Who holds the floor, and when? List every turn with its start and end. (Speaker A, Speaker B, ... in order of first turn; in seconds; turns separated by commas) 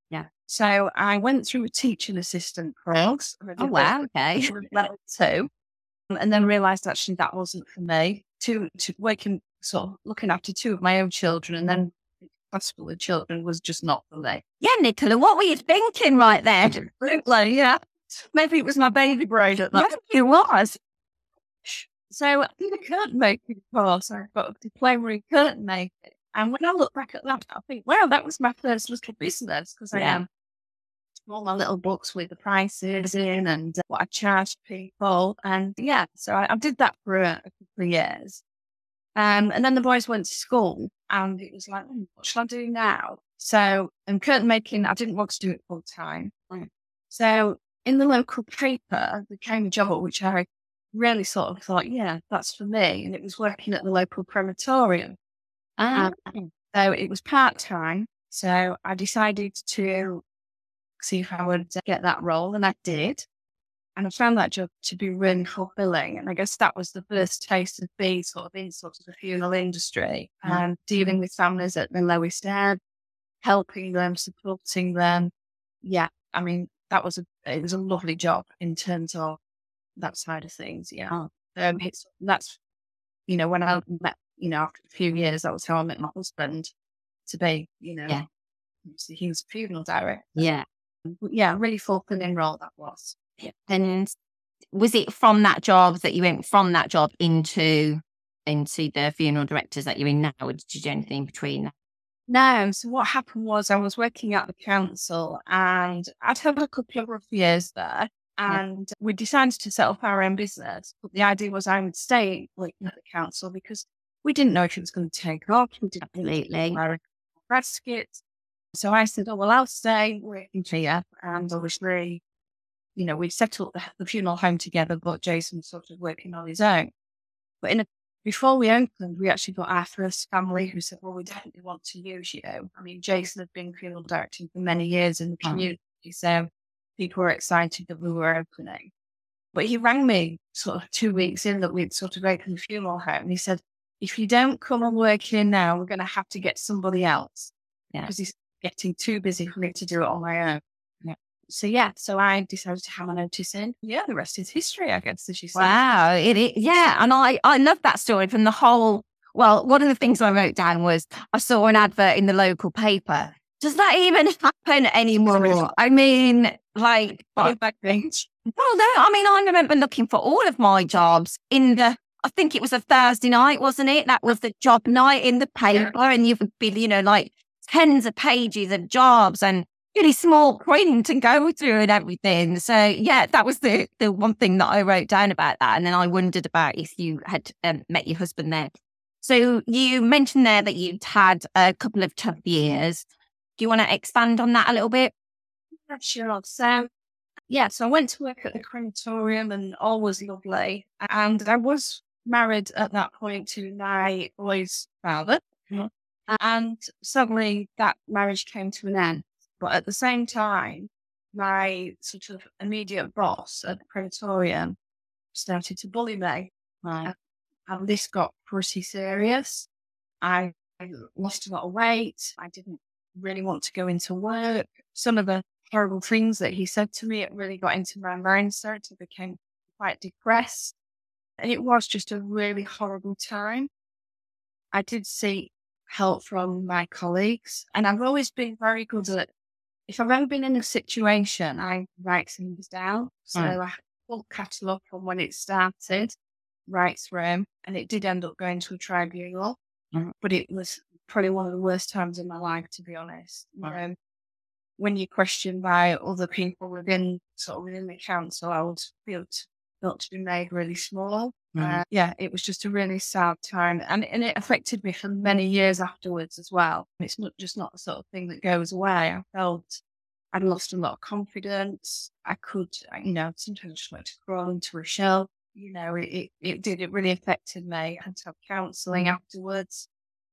Speaker A: 0.5-5.5, Speaker B: 3.6-4.5, Speaker A: 6.1-11.9, Speaker A: 12.5-14.4, Speaker B: 14.6-16.8, Speaker A: 16.8-19.9, Speaker B: 19.7-20.8, Speaker A: 21.6-30.2, Speaker B: 29.9-30.2, Speaker A: 31.3-38.4, Speaker A: 39.1-46.4, Speaker A: 47.1-55.1, Speaker B: 55.8-56.5, Speaker A: 55.9-60.2, Speaker A: 61.0-63.2, Speaker A: 64.0-72.8, Speaker A: 73.4-75.3, Speaker A: 75.8-79.4, Speaker A: 80.0-82.6, Speaker A: 83.3-86.7, Speaker A: 87.2-88.2, Speaker A: 88.8-90.5, Speaker B: 90.4-90.7, Speaker A: 91.1-93.2, Speaker B: 93.4-94.1, Speaker B: 94.7-101.7, Speaker A: 102.3-118.2, Speaker B: 116.0-116.8, Speaker A: 118.7-122.2, Speaker A: 123.0-126.9, Speaker A: 127.6-138.9, Speaker A: 139.5-147.5, Speaker A: 148.0-150.6, Speaker A: 151.5-155.7, Speaker B: 155.5-167.6, Speaker A: 167.4-168.2, Speaker B: 168.5-193.0, Speaker B: 193.6-195.1, Speaker A: 195.9-196.9, Speaker A: 197.5-214.8, Speaker A: 215.3-216.5, Speaker B: 216.8-217.1, Speaker A: 217.7-219.7, Speaker A: 220.2-230.8, Speaker A: 231.4-233.7, Speaker A: 234.7-239.3, Speaker A: 239.9-246.1, Speaker A: 246.7-249.6, Speaker A: 250.2-253.9, Speaker A: 254.8-269.8, Speaker B: 261.6-261.8, Speaker A: 270.3-279.9